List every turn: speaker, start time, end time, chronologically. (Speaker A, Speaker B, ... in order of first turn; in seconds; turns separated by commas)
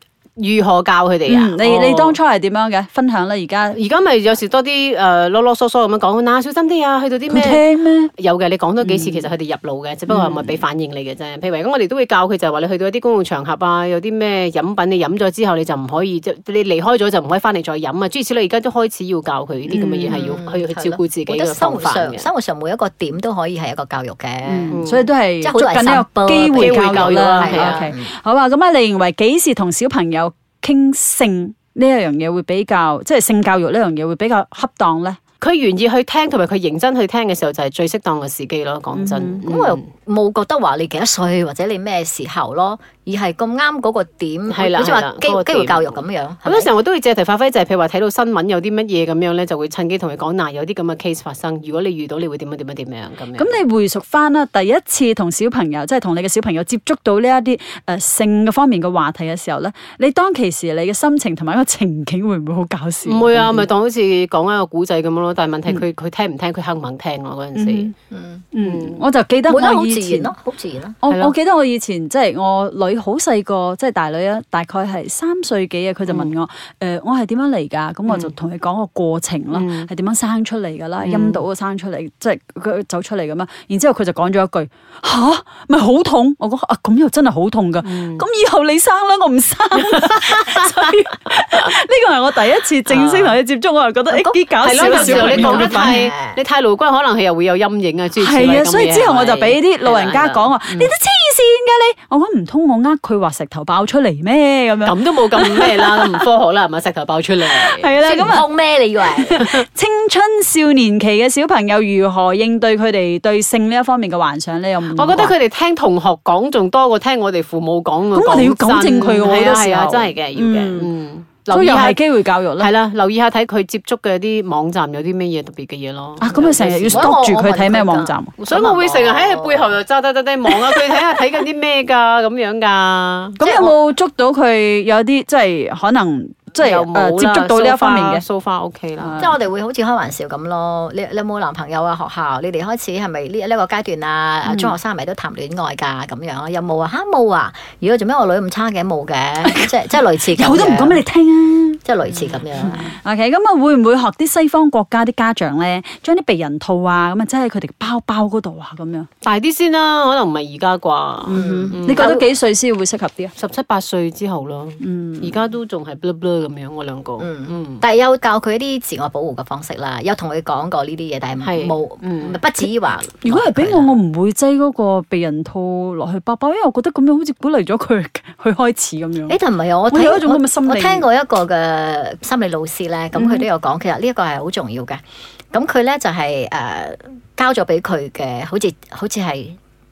Speaker A: 0.4-2.2, Speaker B: 1.3-3.8, Speaker A: 3.7-7.6, Speaker B: 7.3-8.1, Speaker A: 8.2-22.3, Speaker B: 8.8-9.3, Speaker B: 10.1-10.6, Speaker B: 19.7-20.4, Speaker C: 20.1-24.8, Speaker B: 24.5-35.2, Speaker A: 24.7-25.1, Speaker C: 25.4-28.1, Speaker A: 26.6-27.9, Speaker A: 35.4-39.8, Speaker B: 38.9-39.5, Speaker C: 39.5-46.7, Speaker A: 44.5-53.6, Speaker B: 53.4-63.7, Speaker A: 63.1-67.9, Speaker B: 67.5-67.9, Speaker C: 68.1-68.5, Speaker B: 68.5-70.3, Speaker A: 68.6-69.0, Speaker C: 69.5-71.0, Speaker B: 71.0-96.1, Speaker A: 71.1-71.3, Speaker A: 76.1-76.3, Speaker A: 78.1-78.3, Speaker A: 79.5-79.9, Speaker A: 81.0-81.4, Speaker A: 87.8-88.2, Speaker A: 89.8-90.9, Speaker A: 92.9-93.4, Speaker C: 94.1-96.4, Speaker A: 94.6-100.9, Speaker B: 98.2-106.2, Speaker A: 104.8-108.0, Speaker B: 107.5-108.5, Speaker C: 108.0-109.4, Speaker B: 109.2-115.3, Speaker A: 109.3-109.6, Speaker A: 114.9-122.0, Speaker B: 118.1-120.9, Speaker B: 121.5-122.7, Speaker A: 122.6-127.1, Speaker B: 126.2-128.3, Speaker C: 126.9-129.7, Speaker A: 128.4-133.4, Speaker C: 133.4-133.7, Speaker B: 133.4-138.2, Speaker A: 136.6-139.2, Speaker B: 139.0-139.4, Speaker C: 139.2-151.0, Speaker B: 144.5-144.8, Speaker B: 149.4-149.7, Speaker B: 150.3-151.8, Speaker C: 151.8-152.9, Speaker B: 152.6-159.1, Speaker A: 159.2-162.2, Speaker B: 161.3-163.3, Speaker C: 161.3-162.2, Speaker A: 163.4-167.8, Speaker B: 164.8-165.4, Speaker C: 167.2-173.9, Speaker A: 171.4-172.4, Speaker B: 173.2-179.4, Speaker C: 179.3-185.0, Speaker B: 179.9-181.1, Speaker B: 183.2-183.5, Speaker C: 185.5-189.6